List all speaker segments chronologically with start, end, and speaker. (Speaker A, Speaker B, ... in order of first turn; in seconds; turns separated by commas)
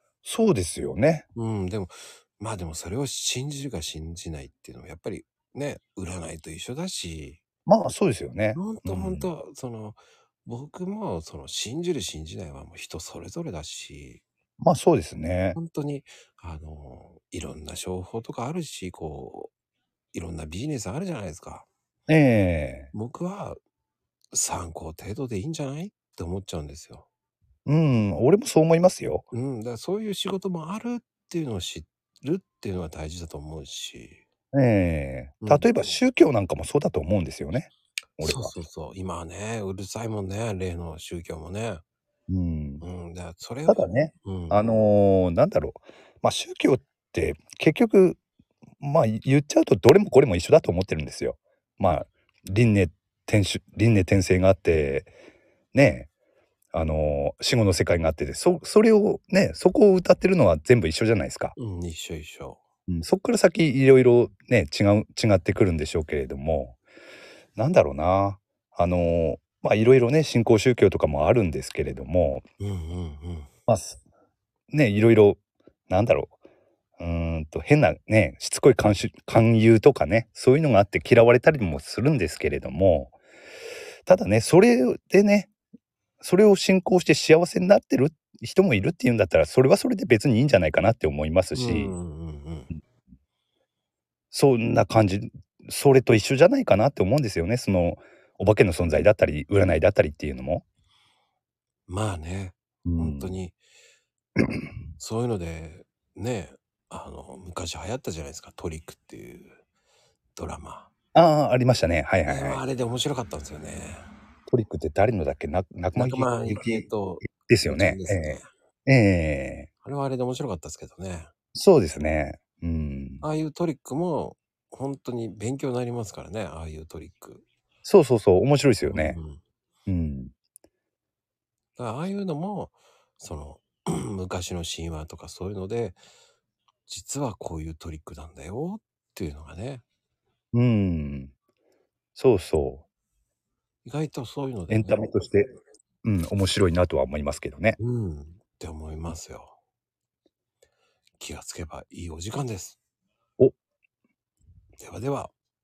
Speaker A: 0.2-1.2, Speaker B: 1.3-7.4, Speaker A: 7.7-9.3, Speaker B: 8.6-14.2, Speaker A: 14.6-15.6, Speaker B: 15.5-19.5, Speaker B: 20.1-21.7, Speaker A: 22.1-22.9, Speaker B: 22.9-23.6, Speaker B: 24.3-27.1, Speaker A: 27.6-29.2, Speaker B: 29.3-34.2, Speaker A: 34.5-38.5, Speaker B: 35.4-35.7, Speaker B: 38.2-41.8, Speaker A: 42.3-42.8, Speaker B: 42.8-44.7, Speaker A: 43.6-48.2, Speaker A: 48.8-55.1, Speaker A: 55.7-56.1, Speaker A: 56.7-61.5, Speaker B: 61.5-62.6, Speaker A: 62.9-66.8, Speaker A: 67.5-72.4, Speaker B: 72.6-73.5, Speaker A: 73.7-74.0, Speaker A: 74.7-76.3, Speaker A: 77.0-83.1, Speaker A: 84.1-85.5, Speaker A: 86.2-92.0, Speaker B: 91.5-92.7, Speaker A: 94.3-100.6, Speaker B: 101.9-103.6, Speaker A: 102.8-103.4, Speaker B: 105.0-109.6, Speaker B: 110.3-110.9, Speaker A: 111.1-112.6, Speaker B: 112.2-114.0, Speaker A: 114.5-119.7, Speaker B: 115.9-118.5, Speaker B: 119.8-121.3, Speaker A: 121.5-123.2, Speaker B: 123.2-127.5, Speaker A: 127.8-129.2, Speaker B: 128.9-129.4, Speaker A: 129.9-130.3, Speaker B: 131.8-136.0, Speaker B: 136.9-139.8, Speaker A: 140.5-141.3, Speaker A: 142.2-142.8, Speaker B: 143.8-145.2, Speaker A: 144.7-145.4, Speaker A: 146.0-147.8, Speaker B: 147.8-149.6, Speaker B: 151.2-152.8, Speaker B: 154.8-155.3